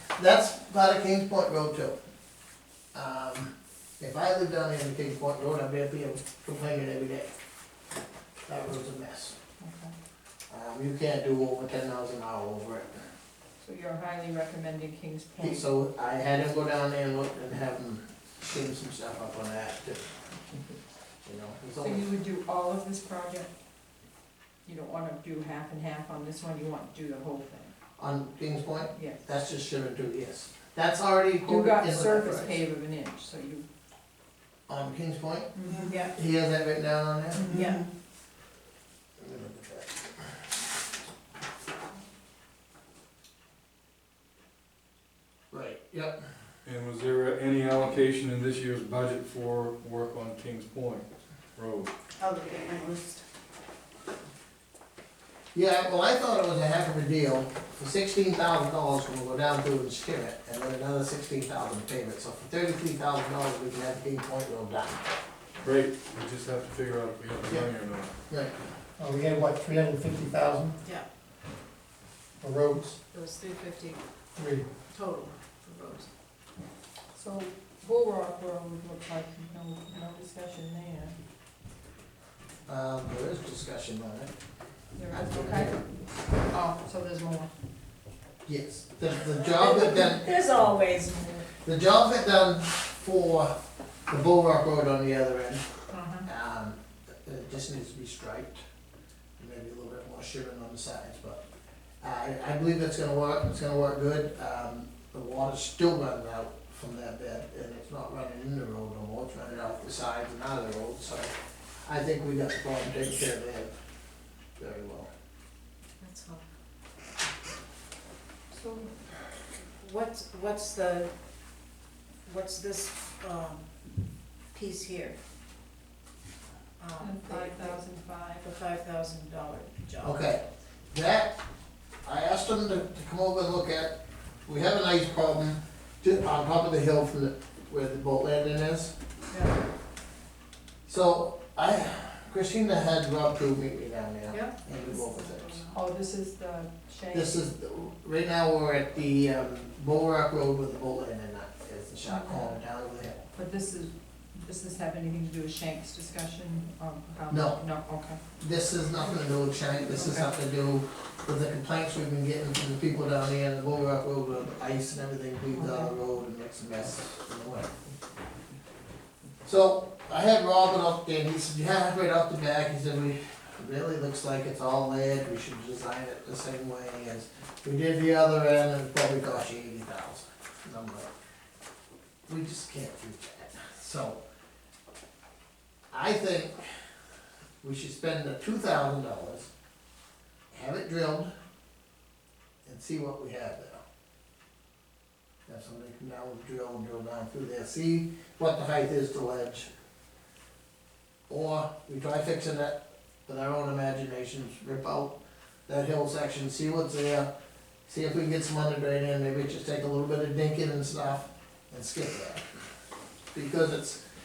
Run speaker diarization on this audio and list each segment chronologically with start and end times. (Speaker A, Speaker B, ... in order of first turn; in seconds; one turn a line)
Speaker A: 0.1-1.9
Speaker A: 2.9-7.3
Speaker A: 8.5-9.3
Speaker B: 9.6-9.9
Speaker A: 10.5-13.0
Speaker B: 13.6-15.6
Speaker A: 15.4-20.2
Speaker A: 21.2-22.1
Speaker B: 21.8-23.5
Speaker B: 24.6-27.7
Speaker A: 28.0-32.6
Speaker B: 28.9-29.2
Speaker B: 31.4-33.6
Speaker A: 34.7-35.6
Speaker B: 35.5-35.9
Speaker C: 35.8-36.1
Speaker A: 36.1-37.5
Speaker B: 37.3-37.7
Speaker C: 37.5-37.9
Speaker A: 39.2-40.3
Speaker A: 45.5-46.2
Speaker D: 46.6-51.9
Speaker C: 52.2-53.2
Speaker A: 55.5-65.0
Speaker D: 65.6-68.1
Speaker A: 68.2-68.5
Speaker E: 69.0-70.8
Speaker E: 72.4-73.0
Speaker C: 73.1-74.0
Speaker E: 74.4-74.7
Speaker C: 74.9-76.1
Speaker B: 77.1-81.2
Speaker A: 82.7-84.3
Speaker B: 85.0-85.8
Speaker A: 85.1-85.8
Speaker B: 86.5-87.5
Speaker A: 88.5-90.2
Speaker C: 89.4-91.5
Speaker A: 91.6-93.5
Speaker A: 94.1-95.6
Speaker B: 95.9-96.2
Speaker A: 96.2-98.6
Speaker A: 99.4-101.4
Speaker A: 102.0-111.3
Speaker A: 111.8-113.7
Speaker A: 114.6-115.1
Speaker C: 116.0-116.4
Speaker B: 118.5-119.0
Speaker C: 119.6-121.1
Speaker C: 122.2-123.7
Speaker C: 124.5-125.2
Speaker C: 126.8-127.8
Speaker B: 127.0-128.4
Speaker C: 128.4-130.2
Speaker A: 130.0-131.4
Speaker A: 132.0-133.9
Speaker A: 134.5-138.9
Speaker C: 139.3-139.6
Speaker A: 140.8-145.6
Speaker C: 144.3-145.8
Speaker B: 145.7-147.4
Speaker A: 147.1-153.2
Speaker B: 152.1-152.5
Speaker B: 153.3-158.2
Speaker A: 157.3-157.6
Speaker A: 158.4-167.7
Speaker B: 159.4-160.4
Speaker B: 165.5-165.9
Speaker A: 169.4-181.1
Speaker A: 182.3-184.2
Speaker A: 185.9-186.6
Speaker A: 187.6-189.5
Speaker A: 190.5-191.3
Speaker A: 192.6-193.8
Speaker A: 195.5-199.7
Speaker A: 201.3-205.1
Speaker A: 205.7-207.3
Speaker A: 207.9-212.4
Speaker A: 213.3-214.0